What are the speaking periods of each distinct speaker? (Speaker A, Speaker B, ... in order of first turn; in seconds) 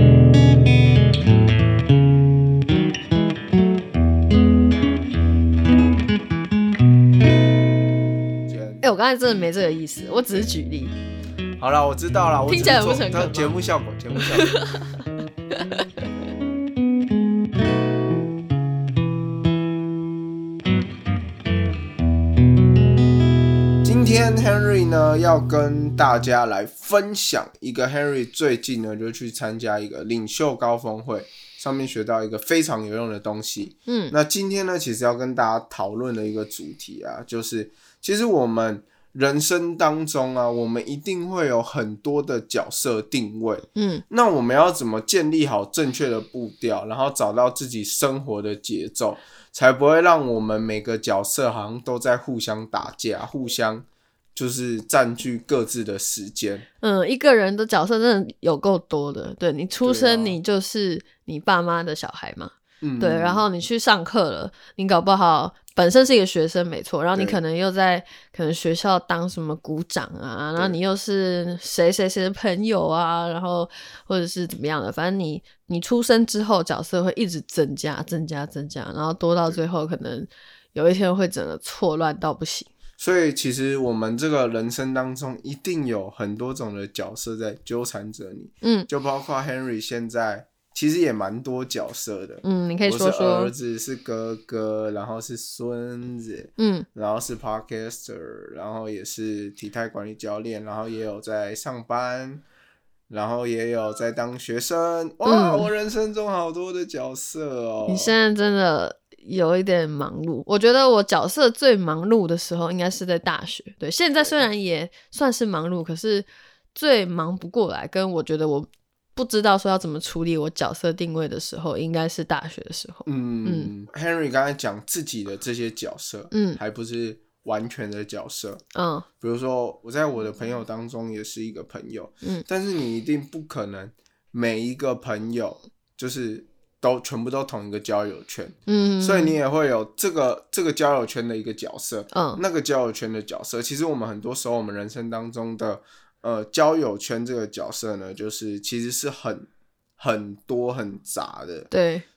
Speaker A: 8.5-8.8, 11.6-14.5, 23.8-56.6, 59.8-60.4, 62.8-63.5, 83.0-102.5, 103.1-108.2, 114.2-114.4, 123.1-128.6, 129.2-151.7
Speaker B: 8.8-11.0, 12.5-13.6, 14.2-15.8, 33.9-34.1, 43.8-44.0, 56.8-82.7, 88.6-88.9, 92.4-93.5, 96.6-96.9, 105.2-105.7, 107.9-123.7, 126.3-126.6, 128.8-129.1, 138.7-139.4, 142.1-142.4, 151.7-152.1